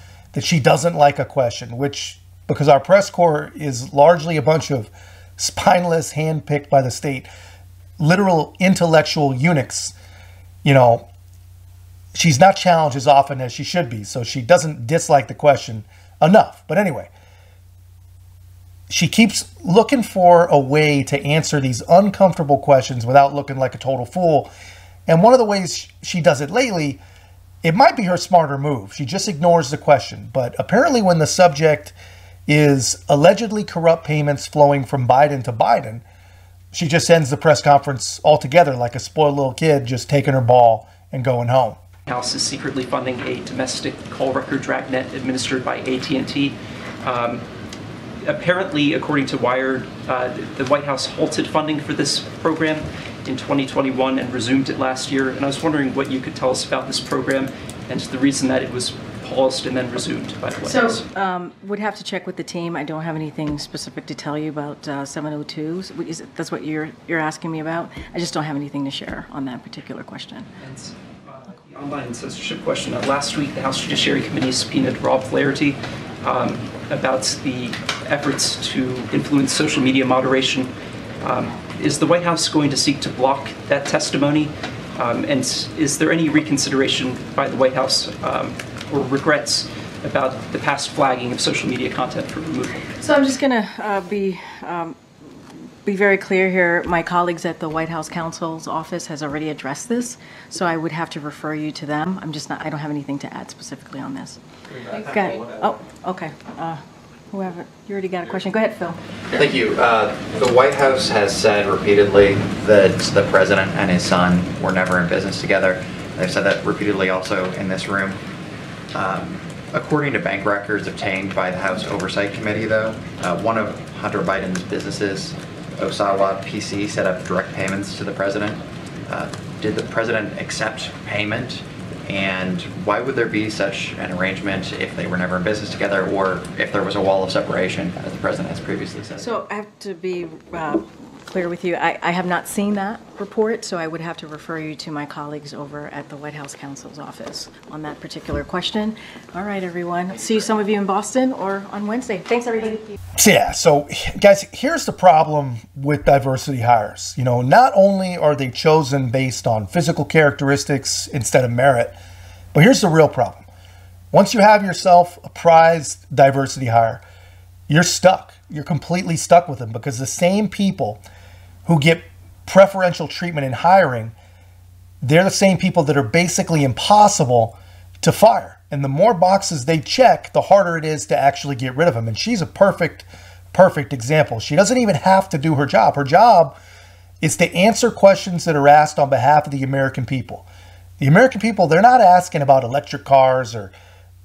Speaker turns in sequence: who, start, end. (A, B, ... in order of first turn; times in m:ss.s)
0:00.3-0:07.3 A
0:08.0-0:09.9 A
0:10.6-0:11.1 A
0:12.1-0:17.1 A
0:18.9-0:24.5 A
0:25.1-0:27.0 A
0:27.6-0:31.9 A
0:32.5-0:36.0 A
0:36.7-0:41.8 A
0:42.1-0:47.4 B
0:48.2-1:01.0 B
1:00.6-1:10.5 C
1:10.6-1:20.7 B
1:21.2-1:32.9 B
1:33.0-1:46.8 C
1:47.3-1:49.0 C
1:49.3-1:58.2 D
1:58.9-2:19.3 D
2:19.2-2:32.9 C
2:33.2-2:42.0 A
2:42.5-2:43.4 A
2:44.1-2:47.0 A
2:47.7-2:51.0 A
2:51.6-2:54.1 A
2:55.0-3:06.6 A
3:07.2-3:10.4 A
3:11.0-3:13.7 A